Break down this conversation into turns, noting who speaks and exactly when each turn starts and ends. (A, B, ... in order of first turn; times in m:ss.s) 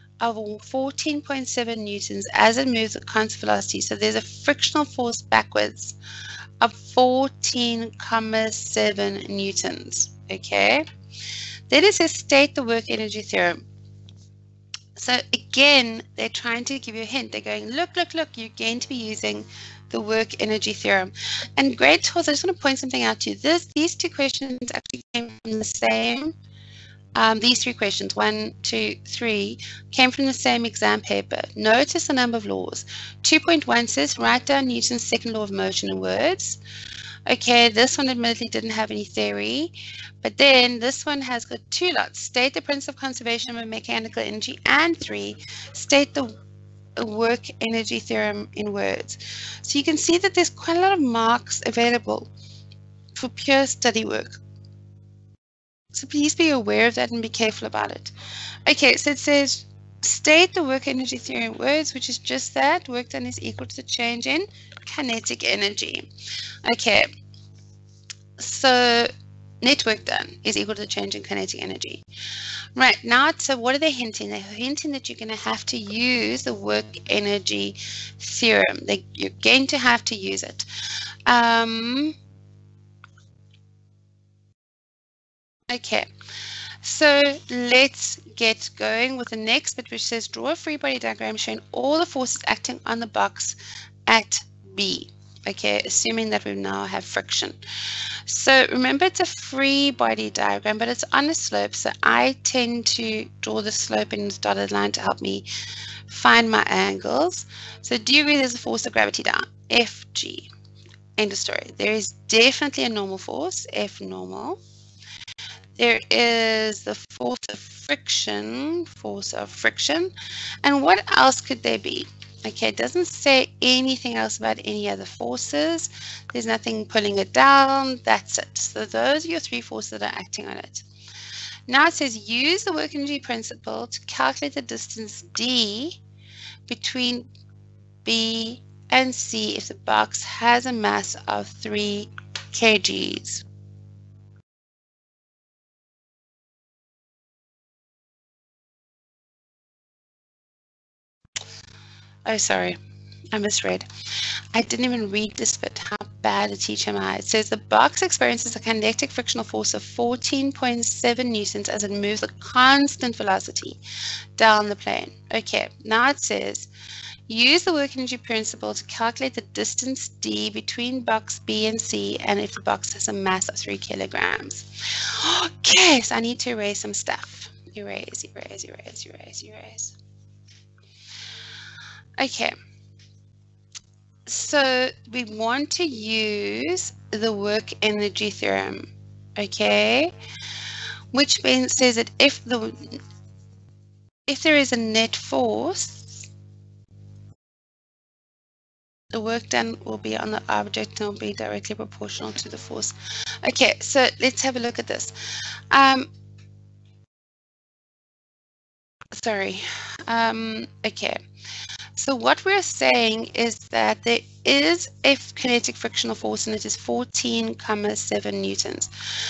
0:00.2-0:06.0 A
0:06.6-0:10.8 A
0:11.7-0:13.6 A
0:15.0-0:26.3 A
0:27.1-0:36.6 A
0:37.3-0:46.4 A
0:47.0-0:52.3 A
0:53.1-0:54.4 A
0:55.9-0:58.1 A
0:58.6-1:06.1 A
1:06.6-1:07.1 A
1:08.4-1:12.0 A
1:12.8-1:20.7 A
1:21.3-1:22.2 A
1:25.7-1:26.1 A
1:26.8-1:37.6 A
1:38.2-1:45.4 A
1:46.1-1:50.5 A
1:51.2-1:54.6 A
1:55.8-2:00.1 A
2:00.6-2:10.8 A
2:11.7-2:16.0 A
2:16.7-2:17.3 A
2:18.0-2:23.4 A
2:32.2-2:32.8 A
2:33.3-2:33.8 A
2:34.5-2:43.8 A
2:44.4-2:46.7 A
2:47.3-2:59.9 A
3:02.2-3:02.5 A
3:04.2-3:10.1 A
3:11.1-3:13.0 A
3:14.3-3:16.3 A
3:19.1-3:25.1 A
3:25.7-3:26.1 A
3:29.1-3:31.2 A
3:32.0-3:38.9 A